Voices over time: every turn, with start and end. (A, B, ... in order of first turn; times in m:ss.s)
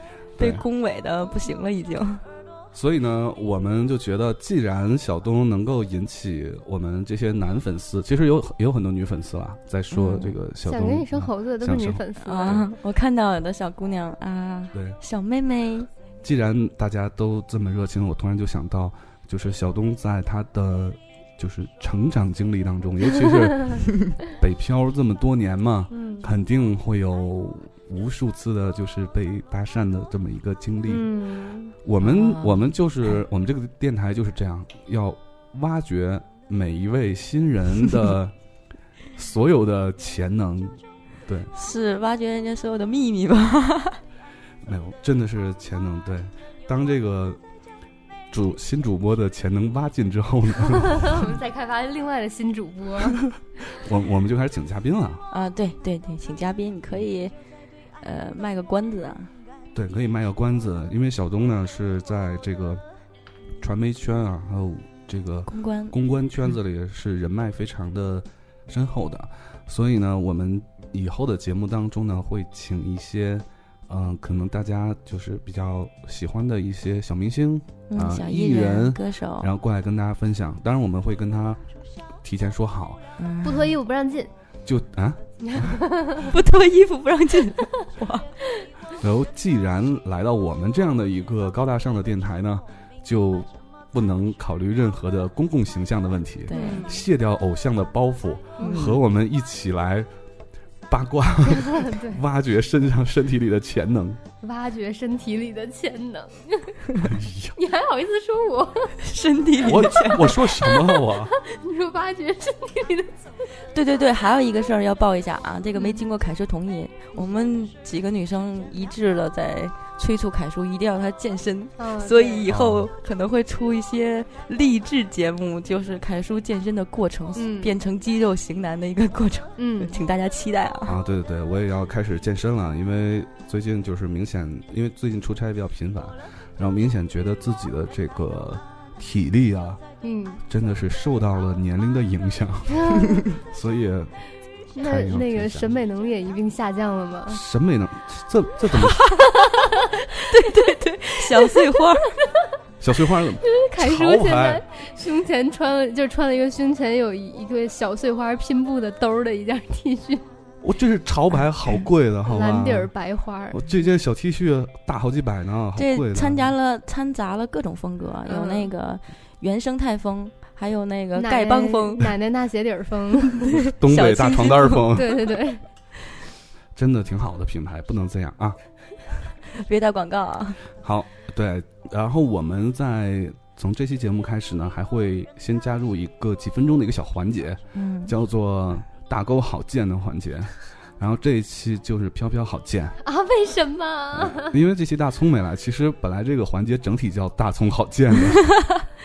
0:00.4-0:02.2 A
0:00.4-0:00.6 B
0:02.7-0:12.6 B
0:09.9-0:10.3 A
0:10.6-0:12.7 C
0:12.2-0:15.9 A
0:16.2-0:31.1 B
0:25.9-0:26.2 C
0:30.9-0:31.7 C
0:31.8-0:38.3 B
0:32.0-0:32.7 A
0:39.1-0:41.5 B
0:41.5-0:44.0 A
0:44.6-0:47.4 B
0:48.3-0:51.2 B
0:50.7-0:53.2 C
0:53.1-0:55.2 B
0:55.3-0:57.3 A
0:58.0-0:59.3 A
0:59.7-1:02.8 B
1:03.6-1:21.6 B
1:05.5-1:06.0 A
1:17.9-1:19.5 A
1:22.2-1:23.0 B
1:23.2-1:23.7 A
1:23.4-1:24.3 C
1:24.6-1:25.8 B
1:25.4-1:26.2 C
1:26.2-1:28.3 A
1:29.0-1:40.1 B
1:36.5-1:36.9 A
1:36.5-1:36.9 C
1:38.6-1:39.0 A
1:40.9-1:44.2 B
1:41.5-1:42.2 C
1:44.4-1:46.8 C
1:47.0-1:47.5 B
1:47.6-1:48.9 C
1:49.0-1:50.5 A
1:49.6-1:51.3 B
1:51.4-1:53.1 C
1:53.7-2:11.0 A
1:55.7-1:56.0 C
2:01.8-2:02.4 C
2:02.4-2:02.9 B
2:07.4-2:07.7 C
2:09.6-2:10.0 C
2:10.8-2:19.8 B
2:20.0-2:20.4 C
2:20.5-2:24.1 B
2:22.7-2:23.2 C
2:24.8-2:25.7 B
2:24.8-2:27.4 C
2:27.3-2:29.1 B
2:28.9-2:29.4 A
2:30.3-2:32.1 A
2:32.8-2:34.6 B
2:33.5-2:40.2 C
2:40.6-2:42.9 B
2:42.3-2:43.6 C
2:43.5-2:46.5 B
2:45.8-2:52.1 A
2:48.3-2:48.7 C
2:51.2-2:53.5 C
2:53.5-2:55.0 A
2:53.7-2:55.2 B
2:55.0-2:55.6 C
2:56.8-2:58.6 B
2:59.5-3:00.6 A
3:00.8-3:13.0 B
3:07.7-3:08.1 A
3:13.0-3:14.5 C
3:14.1-3:18.4 B
3:18.6-3:18.8 A